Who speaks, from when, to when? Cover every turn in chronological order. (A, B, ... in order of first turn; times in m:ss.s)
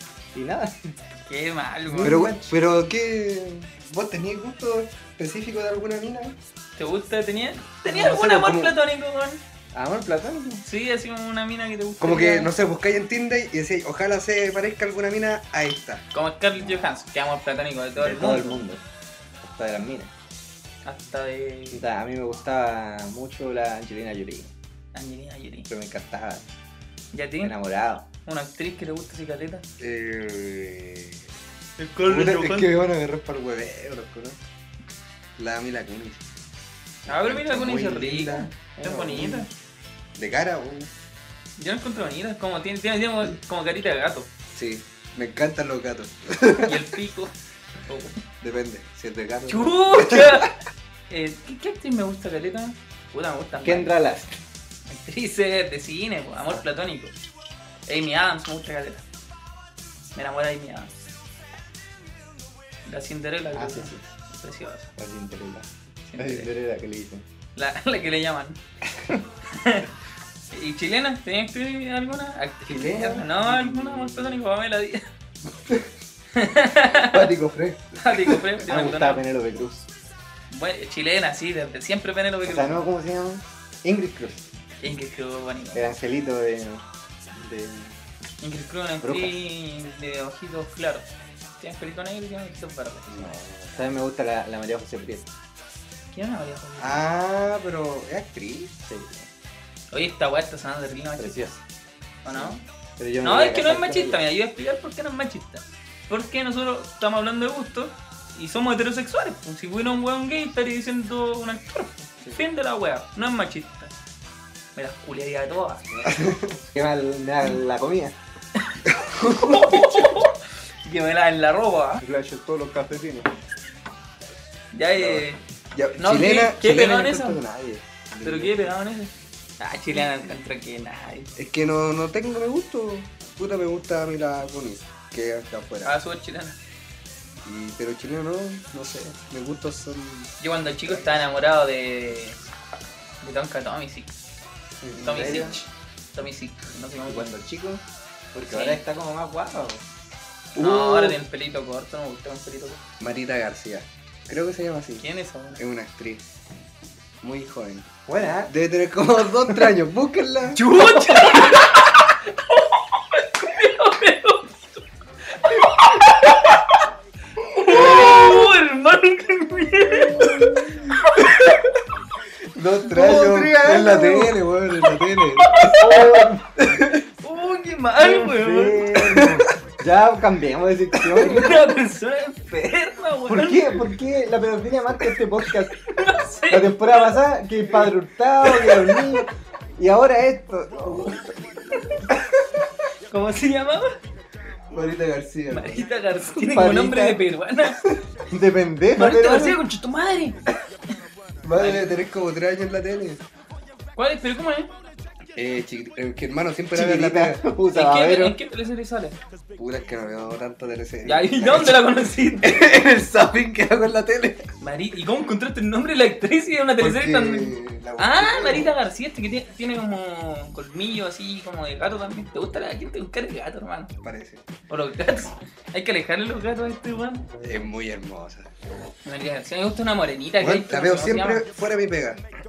0:00.3-0:01.0 A
0:01.2-0:02.4 B
0:01.9-0:02.4 A
0:02.0-0:06.4 C
0:06.8-0:09.4 B
0:08.0-0:08.7 C
0:09.7-0:10.6 A
0:10.6-0:12.5 B
0:12.0-0:16.0 C
0:16.1-0:18.6 B
0:16.6-0:16.9 A
0:18.0-0:18.8 A
0:19.4-0:20.1 A
0:20.8-0:21.8 B
0:21.7-0:24.5 A
0:24.9-0:25.7 B
0:25.7-0:26.4 A
0:27.1-0:27.5 B
0:27.4-0:28.1 A
0:28.2-0:29.6 B
0:29.8-0:31.2 C
0:31.8-0:32.7 B
0:32.1-0:34.4 C
0:35.4-0:36.2 C
0:37.1-0:38.5 C
0:37.1-0:39.5 B
0:38.8-0:39.4 A
0:40.2-0:40.9 C
0:41.6-0:44.3 B
0:44.5-0:46.8 C
0:46.6-0:47.3 B
0:47.9-0:48.2 B
0:48.4-0:50.5 C
0:49.5-0:50.6 B
0:51.1-0:53.9 B
0:53.6-0:54.4 A
0:54.9-0:57.1 B
0:57.9-0:59.0 B
1:00.1-1:00.9 B
1:02.9-1:04.9 B
1:03.5-1:04.0 A
1:05.0-1:07.2 A
1:06.1-1:06.5 B
1:07.6-1:08.6 B
1:09.4-1:09.9 B
1:10.5-1:15.0 B
1:12.7-1:14.4 C
1:16.3-1:17.3 B
1:17.0-1:18.4 C
1:18.0-1:19.2 B
1:18.7-1:19.9 A
1:20.5-1:22.8 B
1:22.4-1:24.4 A
1:24.8-1:25.9 B
1:25.7-1:26.8 A
1:27.3-1:28.0 A
1:28.4-1:33.3 B
1:29.0-1:29.3 A
1:33.1-1:33.8 C
1:33.8-1:35.3 A
1:36.1-1:37.1 B
1:36.8-1:38.7 C
1:38.8-1:39.3 A
1:39.9-1:41.4 B
1:41.2-1:41.6 A
1:42.2-1:42.6 B
1:43.0-1:44.2 A
1:43.2-1:53.9 B
1:54.8-1:55.9 B
1:56.0-1:56.6 C
1:56.7-1:58.1 A
1:58.6-2:02.0 B
1:58.9-2:00.3 C
2:02.0-2:03.3 A
2:04.7-2:05.4 B
2:05.0-2:08.7 C
2:06.0-2:07.4 B
2:08.2-2:11.3 B
2:11.4-2:16.0 C
2:15.8-2:16.6 B
2:17.4-2:20.3 C
2:20.4-2:22.4 B
2:20.8-2:21.1 C
2:23.2-2:24.1 B
2:24.8-2:25.6 A
2:25.0-2:27.3 B
2:27.1-2:27.8 A
2:28.4-2:29.8 A
2:28.4-2:28.8 B
2:30.6-2:31.2 C
2:30.6-2:32.8 B
2:33.0-2:35.0 C
2:35.0-2:35.6 B
2:35.6-2:36.2 C
2:37.2-2:37.9 C
2:38.1-2:38.5 A
2:38.4-2:40.6 C
2:40.5-2:46.9 B
2:47.4-2:51.7 B
2:47.8-2:48.4 A
2:49.9-2:50.9 A
2:52.6-2:55.7 C
2:52.6-2:54.4 A
2:55.0-2:56.3 B
2:55.6-2:56.4 A
2:56.6-2:57.0 C
2:57.2-2:58.9 B
2:58.0-3:01.7 A
2:59.0-2:59.5 C
3:00.9-3:01.2 C
3:01.1-3:03.9 B
3:03.3-3:06.0 A
3:05.8-3:07.2 B
3:06.5-3:12.0 A
3:08.5-3:09.2 B
3:13.1-3:14.0 B
3:14.7-3:15.8 C
3:15.5-3:17.8 B
3:16.4-3:17.2 A
3:18.3-3:19.6 A
3:18.9-3:20.4 B
3:21.4-3:23.2 C
3:21.6-3:21.9 B
3:24.0-3:24.7 B
3:25.4-3:27.4 C
3:26.7-3:28.4 A
3:27.7-3:29.2 B
3:29.6-3:34.5 C
3:31.0-3:32.6 B
3:34.6-3:43.9 B
3:36.8-3:38.7 C
3:44.0-3:44.4 C
3:44.7-3:47.3 B
3:47.4-3:48.5 C
3:49.0-3:51.4 B
3:50.4-3:52.2 C